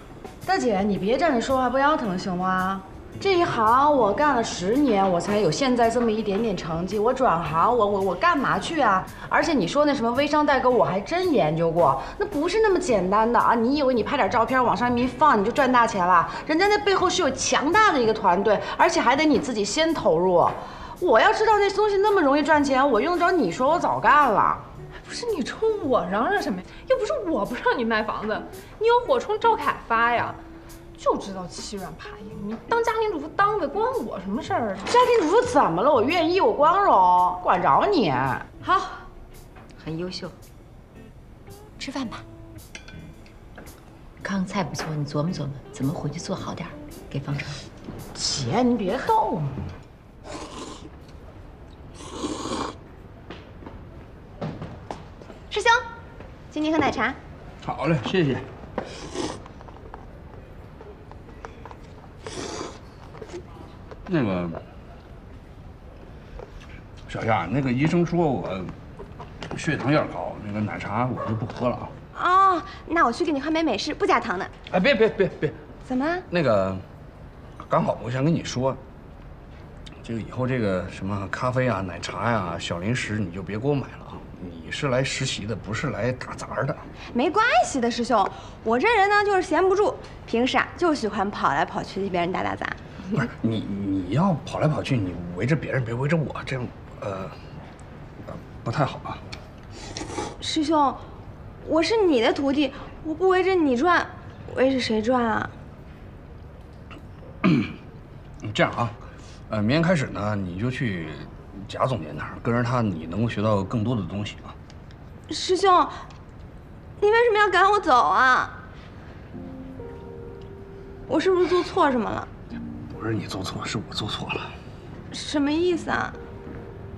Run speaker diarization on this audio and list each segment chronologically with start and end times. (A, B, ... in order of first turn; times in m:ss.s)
0:00.4-0:24.6 A
0:25.0-0:30.4 B
0:31.0-0:34.9 B
0:34.8-0:38.5 A
0:39.8-0:40.4 C
0:41.8-0:42.2 C
0:44.2-0:47.6 C
0:48.1-0:49.6 A
0:55.5-0:55.8 D
0:56.5-0:57.2 D
0:57.6-0:58.4 E
1:04.1-1:04.6 E
1:07.1-1:08.7 E
1:09.5-1:11.9 E
1:12.1-1:14.5 D
1:14.7-1:15.6 E
1:15.8-1:16.2 D
1:16.3-1:16.8 E
1:17.6-1:18.8 E
1:20.0-1:26.8 E
1:27.1-1:32.8 D
1:33.2-1:37.4 E
1:38.3-1:39.2 E
1:40.4-1:41.0 D
1:41.6-1:45.5 D
1:47.4-1:47.7 E
1:48.4-1:54.6 E
1:55.3-1:55.9 D
1:57.0-1:58.5 D
2:01.1-2:02.3 D
2:02.9-2:04.6 E
2:05.1-2:06.2 D